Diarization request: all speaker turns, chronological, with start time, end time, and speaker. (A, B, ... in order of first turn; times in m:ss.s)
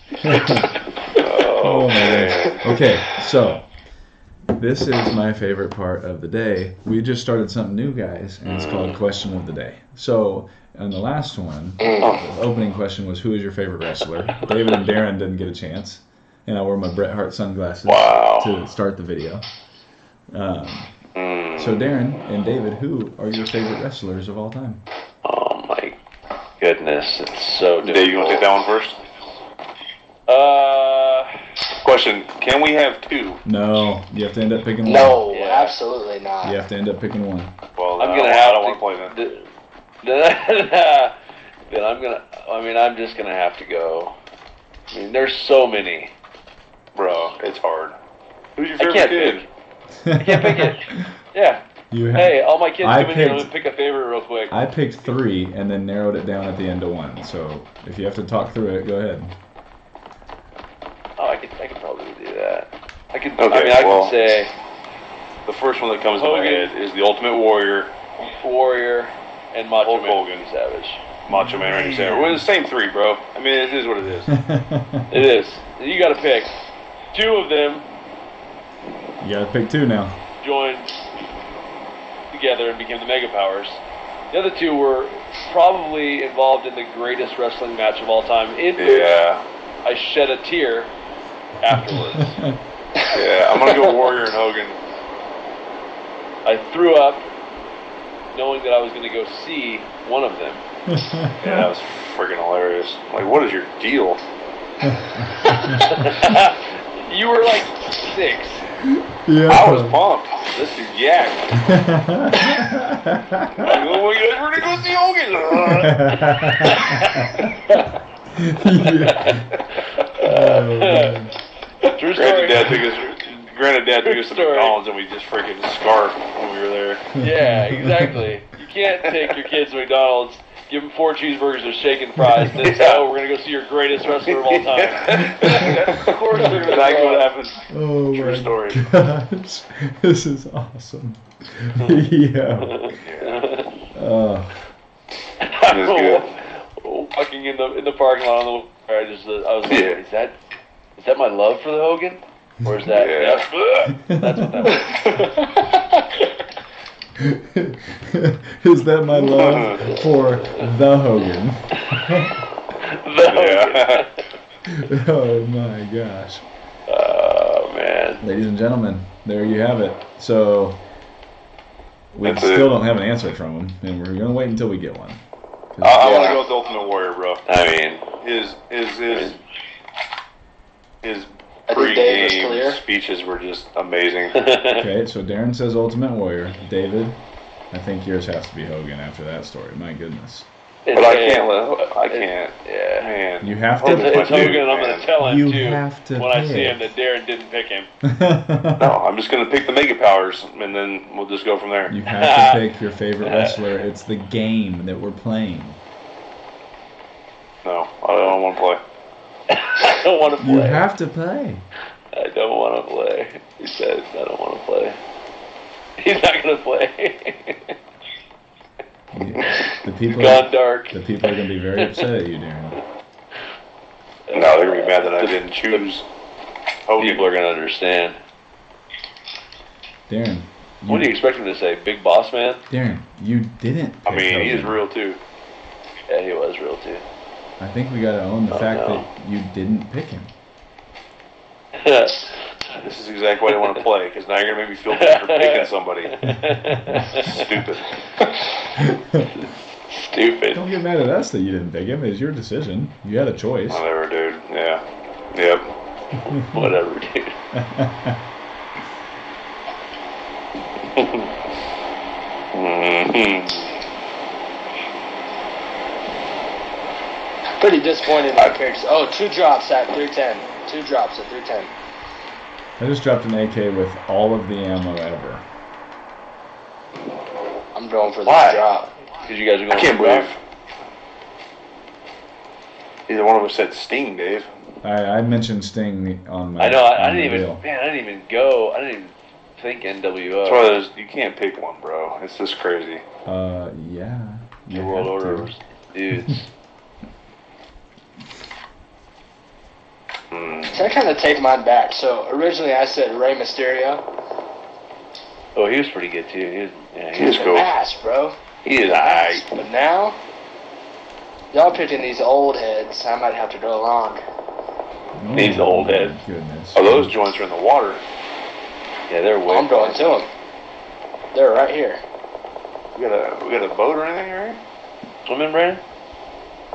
0:00.2-0:00.7 A
0:01.1-0:02.8 B
0:01.6-0:03.7 A
0:01.9-0:02.2 C
0:04.5-0:19.5 A
0:08.5-0:08.9 B
0:17.8-0:18.5 B
0:20.3-0:20.9 A
0:21.1-0:21.8 B
0:21.6-0:24.8 A
0:25.2-0:26.0 C
0:26.6-0:28.5 C
0:27.8-0:29.0 B
0:30.3-0:31.3 C
0:31.8-0:33.4 B
0:33.4-0:35.2 A
0:34.8-0:36.6 D
0:35.3-0:35.8 C
0:36.4-0:37.5 A
0:37.8-0:39.1 B
0:38.0-0:39.5 C
0:40.0-0:41.2 C
0:41.7-0:44.2 C
0:44.9-0:46.1 C
0:46.9-0:48.0 B
0:48.6-0:49.4 B
0:48.8-0:49.5 C
0:50.0-0:51.1 A
0:50.2-0:54.5 C
0:51.9-0:53.5 A
0:54.5-0:59.3 A
1:01.2-1:04.5 C
1:03.4-1:04.2 B
1:05.4-1:07.9 B
1:06.1-1:06.7 C
1:08.2-1:11.0 C
1:09.8-1:10.4 B
1:11.2-1:14.3 B
1:11.3-1:12.4 A
1:14.3-1:15.2 A
1:15.1-1:16.5 C
1:17.1-1:17.8 C
1:19.2-1:20.2 A
1:20.4-1:20.9 C
1:22.3-1:29.2 C
1:28.8-1:29.4 B
1:29.8-1:30.9 C
1:31.6-1:32.4 C
1:31.9-1:32.6 A
1:33.1-1:34.8 B
1:36.4-1:37.3 C
1:38.3-1:40.6 C
1:40.9-1:41.7 A
1:41.4-1:44.2 B
1:44.8-1:46.2 A
1:45.8-1:48.7 C
1:48.8-1:50.0 A
1:49.5-1:50.5 B
1:50.5-1:51.4 C
1:51.5-1:53.7 A
1:53.6-1:56.0 B
1:55.7-1:57.4 A
1:56.7-1:57.4 C
1:58.3-1:59.5 A
1:59.0-2:01.3 C
2:00.2-2:01.3 A
2:01.8-2:02.9 C
2:02.1-2:07.1 B
2:04.0-2:04.8 C
2:07.2-2:08.3 A
2:07.2-2:17.3 C
2:12.5-2:13.0 B
2:14.3-2:18.8 B
2:15.4-2:15.9 A
2:17.7-2:22.9 A
2:22.6-2:23.7 C
2:22.9-2:23.4 B
2:23.9-2:24.6 A
2:25.4-2:30.4 C
2:25.7-2:26.3 B
2:29.7-2:30.0 B
2:31.0-2:35.4 C
2:32.9-2:33.5 B
2:33.9-2:34.8 A
2:37.2-2:42.4 A
2:39.2-2:39.9 B
2:40.4-2:40.7 C
2:42.8-2:44.2 C
2:43.3-2:44.1 B
2:44.6-2:46.4 A
2:46.9-2:48.2 C
2:48.2-2:50.8 A
2:52.1-2:56.0 A
2:52.2-2:52.7 B
2:55.8-2:57.4 B
2:56.0-2:56.4 D
2:57.4-2:58.1 C
2:58.2-2:59.4 B
3:01.0-3:04.4 B
3:01.7-3:02.8 D
3:04.4-3:04.9 C
3:04.8-3:10.5 A
3:10.8-3:13.2 C
3:10.9-3:15.1 B
3:13.4-3:14.6 A
3:13.8-3:17.9 C
3:15.2-3:16.8 A
3:18.0-3:18.9 A
3:18.8-3:21.9 B
3:21.9-3:25.8 A
3:22.1-3:22.6 C
3:23.2-3:23.8 C
3:27.6-3:28.8 B
3:29.5-3:30.8 C
3:30.4-3:31.6 A
3:32.1-3:35.0 C
3:36.0-3:37.8 C
3:39.1-3:42.8 A
3:39.5-3:41.0 C
3:41.8-3:42.1 C
3:44.3-3:45.8 C
3:44.3-3:46.0 B
3:46.8-3:47.2 B
3:47.0-3:48.2 C
3:50.1-3:51.1 A
3:50.9-3:52.6 C
3:52.7-3:54.8 A
3:54.0-3:55.2 B
3:56.1-3:57.0 C
3:57.6-4:00.3 A
3:58.5-3:59.0 C
4:01.8-4:02.4 C
4:02.8-4:06.1 B
4:03.5-4:03.7 C
4:05.0-4:07.4 C
4:06.2-4:07.2 A
4:07.1-4:07.9 B
4:08.8-4:09.4 A
4:09.9-4:10.6 C
4:10.5-4:13.8 A
4:13.7-4:14.8 B
4:15.3-4:15.7 B
4:16.2-4:16.7 A
4:16.4-4:17.4 C
4:17.5-4:18.2 A
4:20.9-4:21.3 B
4:22.5-4:23.7 B
4:27.6-4:31.7 D
4:32.8-4:35.4 A
4:37.7-4:38.9 D
4:38.3-4:38.6 C
4:39.2-4:40.3 C
4:39.7-4:40.4 B
4:43.1-4:44.5 B
4:44.8-4:47.6 A
4:46.6-4:50.7 C
4:50.4-4:53.0 B
4:53.2-4:55.5 A
4:54.7-4:56.5 C
5:00.3-5:00.7 B
5:00.7-5:04.0 D
5:05.6-5:07.6 C
5:07.1-5:07.7 B
5:07.3-5:10.2 D
5:08.6-5:09.4 B
5:11.5-5:14.2 D
5:15.2-5:17.1 A
5:15.3-5:16.1 C
5:16.7-5:18.0 B
5:19.1-5:20.0 C
5:19.5-5:20.3 D
5:21.3-5:22.0 D
5:22.9-5:24.6 B
5:25.2-5:25.8 C